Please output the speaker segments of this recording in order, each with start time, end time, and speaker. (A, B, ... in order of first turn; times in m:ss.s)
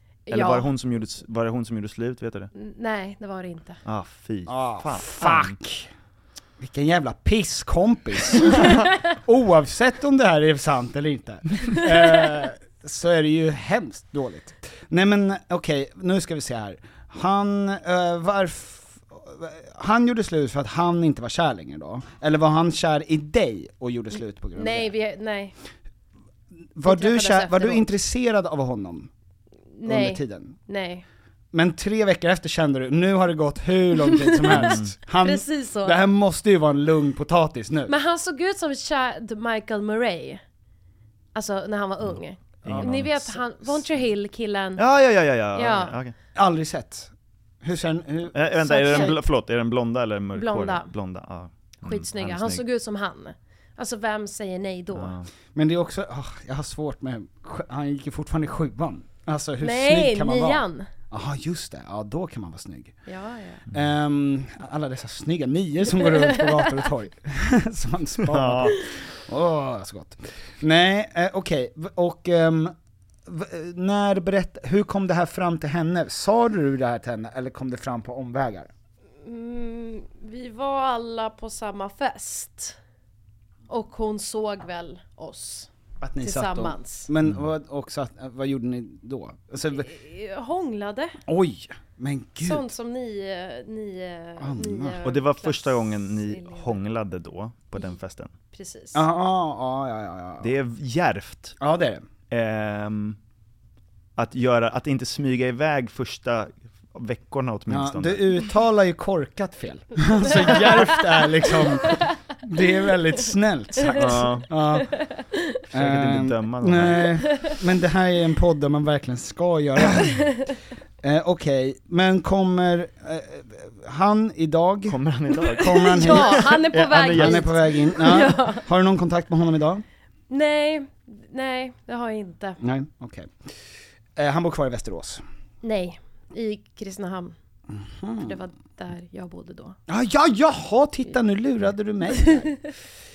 0:00.3-0:00.7 A
0:00.3-0:02.5 B
0:02.5-0:03.8 A
0:03.8-0:05.6 B
0:04.5-0:05.9 C
0:06.6-0:24.9 C
0:24.6-0:25.6 A
0:26.8-0:29.1 C
0:26.8-0:27.8 A
0:29.8-0:31.0 A
0:29.8-0:30.6 C
0:31.5-0:37.9 C
0:34.0-0:36.0 A
0:34.5-0:35.0 B
0:37.9-0:40.4 A
0:41.4-0:44.8 A
0:42.6-0:43.2 B
0:42.6-0:43.4 C
0:44.8-0:46.1 B
0:45.5-0:46.0 A
0:46.4-0:49.2 C
0:48.3-0:52.6 B
0:48.7-0:49.1 A
0:50.4-0:50.9 A
0:51.8-0:55.1 A
0:54.9-0:55.3 B
0:55.6-1:02.9 C
0:59.6-1:00.9 A
1:03.1-1:03.6 A
1:03.7-1:12.8 C
1:06.0-1:06.4 A
1:08.2-1:08.8 B
1:13.3-1:18.7 C
1:19.2-1:22.8 A
1:23.7-1:25.7 A
1:26.0-1:29.9 C
1:26.2-1:27.1 A
1:29.7-1:31.2 A
1:31.3-1:32.7 C
1:32.4-1:36.8 A
1:34.4-1:35.0 C
1:35.0-1:38.3 B
1:38.5-1:39.0 A
1:38.9-1:40.5 C
1:40.4-1:41.6 B
1:41.6-1:42.0 C
1:42.3-1:43.2 B
1:44.2-1:48.4 B
1:47.7-1:54.9 C
1:50.3-1:50.8 A
1:53.8-1:55.4 A
1:53.9-1:54.5 B
1:55.6-1:57.1 B
1:55.7-2:00.2 C
2:01.0-2:06.5 C
2:04.9-2:07.5 B
2:05.6-2:08.7 A
2:07.1-2:09.8 C
2:10.3-2:12.6 A
2:12.6-2:13.3 C
2:14.2-2:15.2 C
2:15.6-2:17.4 A
2:17.7-2:18.4 C
2:18.2-2:19.8 A
2:19.9-2:22.7 C